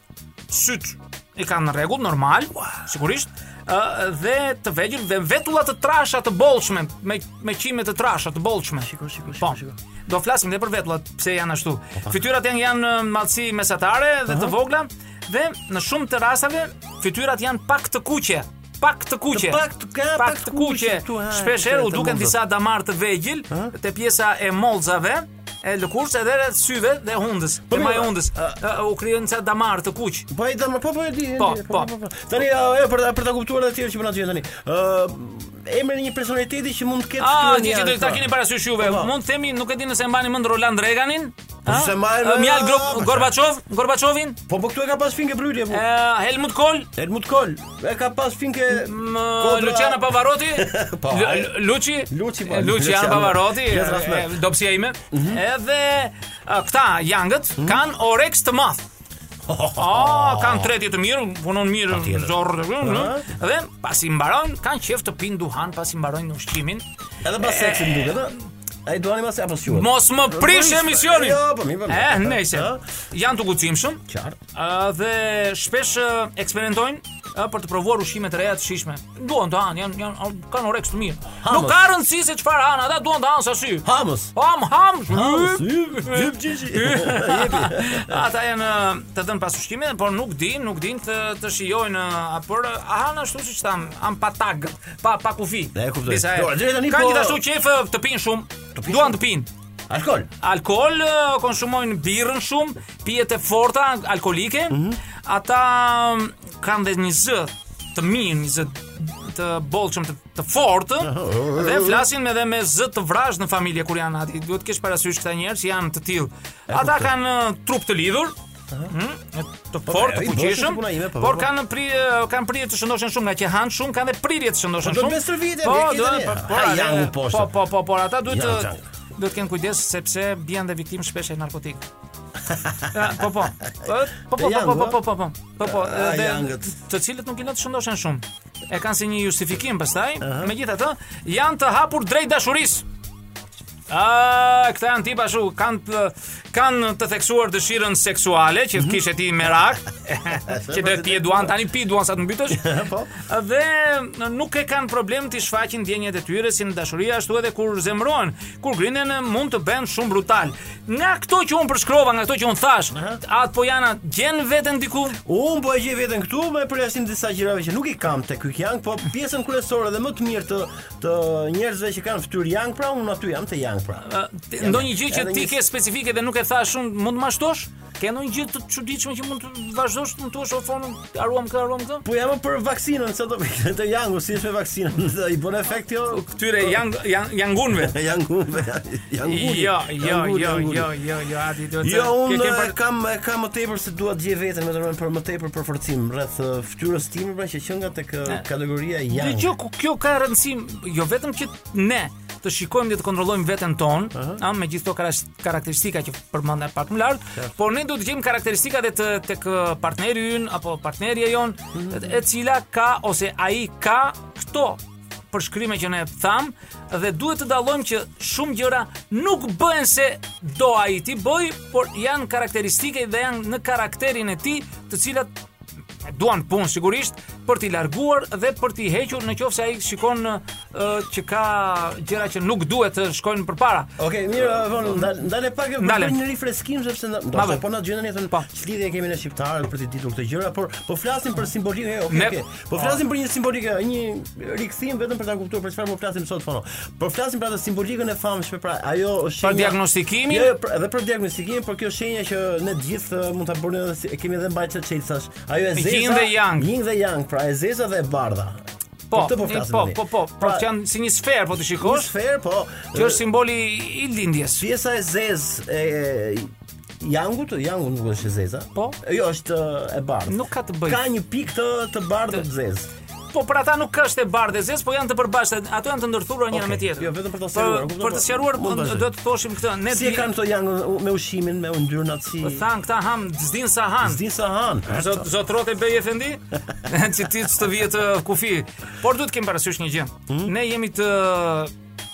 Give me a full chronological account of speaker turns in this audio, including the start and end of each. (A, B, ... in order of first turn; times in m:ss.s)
0:00.5-0:19.6 A
0:08.8-0:09.8 B
0:14.3-0:14.6 B
0:19.3-0:22.4 B
0:20.2-0:30.3 A
0:27.7-0:28.6 B
0:30.3-0:39.1 B
0:31.4-0:31.9 A
0:37.2-0:44.4 A
0:41.6-0:43.3 B
0:44.5-0:45.8 B
0:45.7-0:46.9 A
0:47.0-0:54.3 B
0:48.7-0:58.8 A
0:55.1-0:55.4 B
0:59.5-1:00.7 B
0:59.8-1:06.9 A
1:01.9-1:03.2 B
1:07.2-1:08.4 B
1:07.4-1:08.4 A
1:08.9-1:12.8 B
1:09.7-1:14.0 A
1:14.1-1:14.4 B
1:14.5-1:39.5 A
1:21.4-1:21.8 B
1:23.8-1:24.3 B
1:25.1-1:28.2 B
1:35.7-1:37.4 B
1:38.7-1:39.2 B
1:39.9-1:40.3 B
1:40.4-1:58.3 A
1:44.7-1:45.0 B
1:51.0-1:52.0 B
1:56.7-1:57.1 B
1:58.9-2:11.9 A
1:59.9-2:01.5 B
2:04.8-2:07.5 B
2:08.2-2:08.8 B
2:12.4-2:12.9 B
2:12.9-2:22.8 A
2:14.4-2:15.0 B
2:15.6-2:16.7 B
2:20.2-2:20.5 B
2:23.9-2:45.2 A
2:30.4-2:31.5 B
2:32.5-2:33.1 B
2:42.9-2:43.2 B
2:45.2-2:54.0 B
2:54.0-3:02.0 A
2:54.6-2:55.6 B
3:02.0-3:06.7 B
3:06.1-3:07.9 A
3:07.7-3:10.9 B
3:09.2-3:12.7 A
3:11.8-3:19.5 B
3:19.1-3:45.3 A
3:24.1-3:24.4 B
3:31.7-3:32.1 B
3:46.0-3:53.9 A
3:54.0-4:18.6 B
3:55.8-3:56.2 A
3:57.3-3:57.6 A
4:02.1-4:02.4 A
4:09.4-4:10.5 A
4:15.7-4:16.7 A
4:19.1-4:22.1 A
4:19.1-4:20.6 B
4:21.8-4:23.2 B
4:22.9-4:24.6 A
4:24.6-4:32.9 B
4:30.3-4:31.0 A
4:33.3-4:40.3 A
4:36.5-4:39.1 B
4:39.9-4:42.6 B
4:42.4-4:44.2 A
4:44.0-4:45.3 B
4:44.9-4:51.7 A